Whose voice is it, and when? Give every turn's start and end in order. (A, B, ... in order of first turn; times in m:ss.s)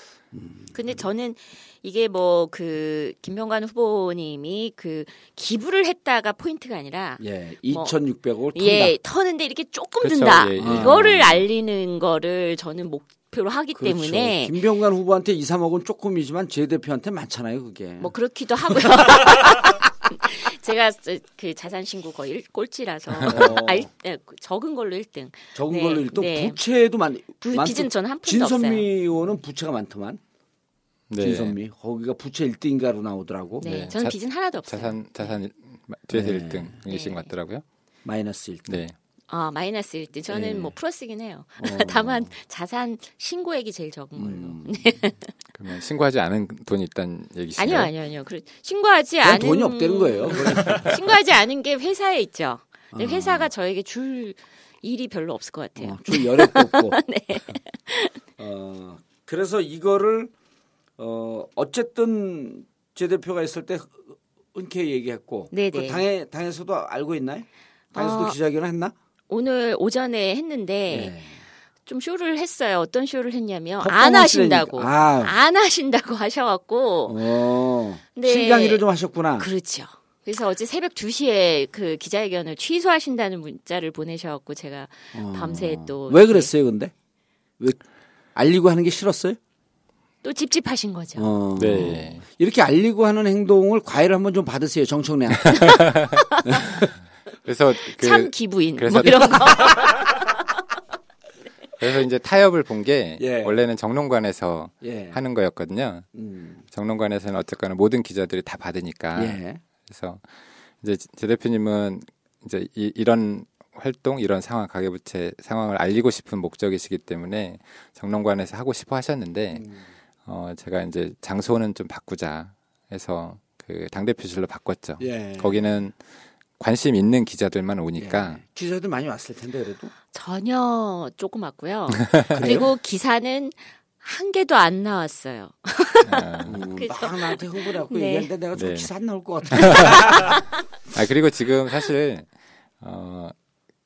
0:00.3-0:01.0 A
0:00.7-0:08.0 B
0:07.2-0:09.0 A
0:08.5-0:14.6 B
0:10.0-0:11.5 C
0:10.6-0:11.0 A
0:13.8-0:18.1 A
0:18.0-0:26.6 B
0:23.2-0:23.9 A
0:25.5-0:30.2 A
0:27.4-0:28.9 B
0:31.1-0:31.6 C
0:31.2-0:33.7 A
0:33.6-0:35.4 B
0:33.6-0:37.6 C
0:36.1-0:36.8 A
0:36.9-0:37.3 B
0:38.0-0:38.8 A
0:38.7-0:39.0 C
0:39.3-0:45.2 B
0:40.3-0:40.7 A
0:41.6-0:42.3 A
0:44.2-0:44.9 A
0:45.6-0:47.9 C
0:47.6-0:58.2 B
0:49.2-0:51.0 A
0:52.9-0:53.5 A
0:55.8-0:57.0 A
0:58.4-1:00.3 A
1:01.0-1:08.9 A
1:05.5-1:06.0 B
1:08.0-1:08.4 B
1:09.3-1:11.2 B
1:10.9-1:11.4 A
1:11.9-1:17.4 B
1:13.8-1:15.4 A
1:17.1-1:19.5 A
1:18.2-1:18.8 B
1:19.4-1:26.5 B
1:25.1-1:26.9 A
1:28.4-1:29.4 A
1:30.2-1:31.3 B
1:31.2-1:35.8 A
1:31.6-1:32.2 C
1:35.5-1:36.2 C
1:36.1-1:36.6 B
1:36.5-1:36.7 A
1:37.4-1:39.8 C
1:37.9-1:40.0 B
1:41.8-1:46.1 C
1:43.2-1:43.6 A
1:44.8-1:45.2 A
1:46.2-1:46.6 A
1:46.7-1:50.2 C
1:49.2-1:49.6 A
1:50.8-1:59.7 C
1:59.5-1:59.8 A
2:00.2-2:06.0 C
2:05.0-2:05.8 A
2:06.6-2:08.4 C
2:08.0-2:09.9 A
2:10.1-2:18.3 B
2:12.3-2:12.7 A
2:16.0-2:16.6 C
2:16.5-2:20.2 A
2:18.6-2:18.9 C
2:19.5-2:20.2 C
2:20.9-2:22.3 C
2:22.8-2:23.3 C